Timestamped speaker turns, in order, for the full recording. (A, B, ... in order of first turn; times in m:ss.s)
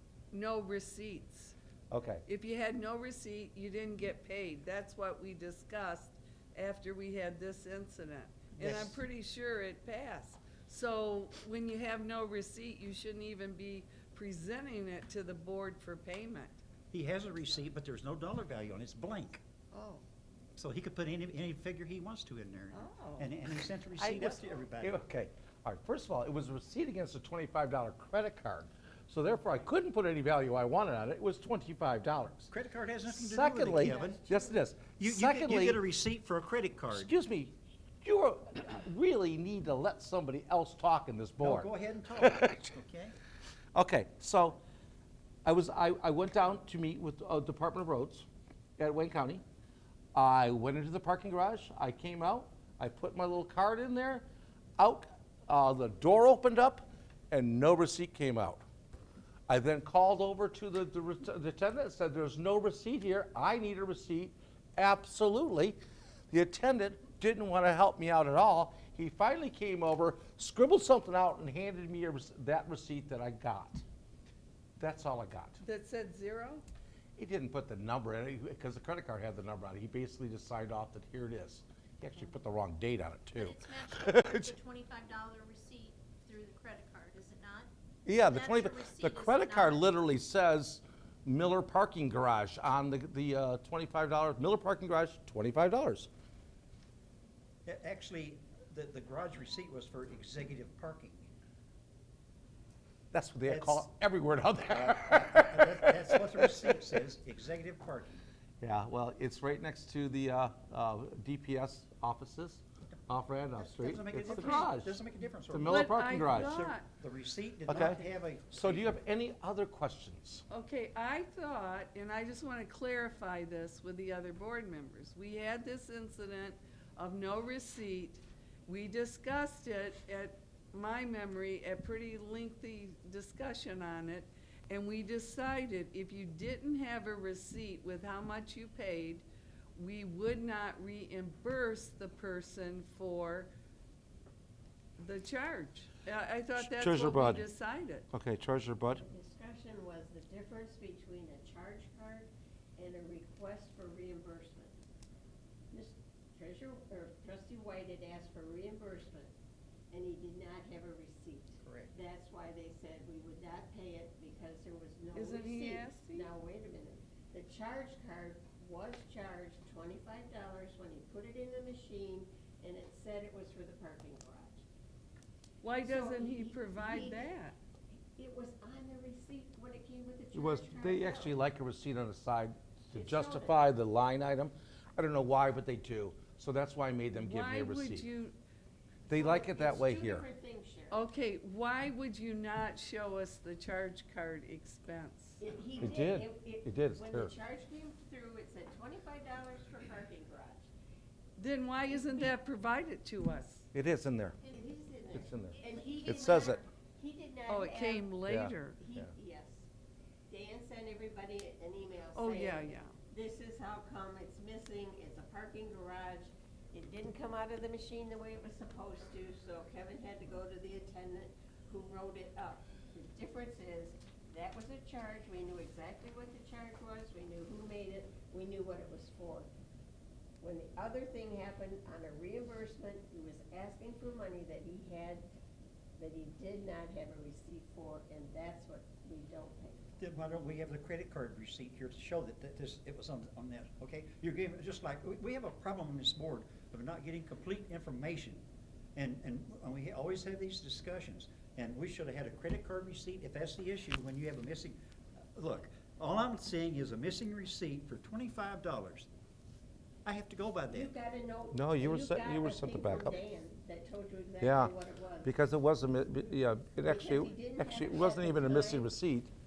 0:00.3-0:01.5 A
0:01.9-0:02.2 B
0:02.2-0:16.6 A
0:08.6-0:09.0 C
0:16.9-0:19.4 C
0:19.7-0:20.0 A
0:20.6-0:25.0 C
0:22.7-0:23.3 A
0:24.0-0:32.5 B
0:32.5-0:34.2 C
0:33.0-0:35.8 B
0:33.8-0:34.6 D
0:35.0-0:37.1 C
0:36.9-0:42.7 B
0:41.4-0:43.1 C
0:43.7-0:44.6 B
0:45.4-0:48.2 B
0:48.8-0:49.4 B
0:50.1-0:54.2 B
0:54.8-0:58.6 B
0:59.5-1:05.8 B
1:06.3-1:13.8 B
1:14.8-1:15.6 B
1:15.6-1:16.6 A
1:17.2-1:24.5 B
1:23.3-1:27.7 E
1:28.0-1:36.1 B
1:28.2-1:29.9 E
1:37.6-1:41.3 C
1:43.1-1:46.8 B
1:43.5-1:43.8 C
1:44.8-1:48.2 C
1:48.6-1:56.5 B
1:53.5-1:58.9 C
1:55.6-1:56.8 A
1:57.7-2:00.4 B
2:00.5-2:23.5 A
2:25.0-2:28.1 A
2:26.6-2:27.4 B
2:28.1-2:29.0 B
2:29.0-2:34.8 D
2:35.7-2:39.3 D
2:39.9-2:54.6 D
2:41.6-2:41.9 C
2:45.1-2:46.3 A
2:55.6-2:57.6 A
2:55.8-2:57.3 D
2:57.9-3:01.4 D
3:00.3-3:08.0 B
3:02.9-3:03.6 D
3:07.1-3:08.4 A
3:09.1-3:10.2 B
3:09.1-3:11.0 D
3:10.9-3:15.4 A
3:15.4-3:20.7 D
3:15.8-3:17.3 B
3:21.4-3:23.7 A
3:21.8-3:22.3 D
3:23.7-3:24.4 B
3:24.4-3:26.6 E
3:24.4-3:28.1 D
3:25.1-3:26.6 B
3:27.5-3:28.8 A
3:28.2-3:29.1 B
3:28.8-3:29.7 D
3:30.3-3:49.5 D
3:32.1-3:32.9 A
3:50.4-3:55.2 D
3:56.0-4:00.0 D
4:00.0-4:08.4 C
4:08.9-4:14.8 C
4:15.3-4:19.1 C
4:20.0-4:20.9 C
4:20.7-4:25.3 D
4:21.5-4:23.2 B
4:24.4-4:29.3 B
4:26.8-4:28.9 D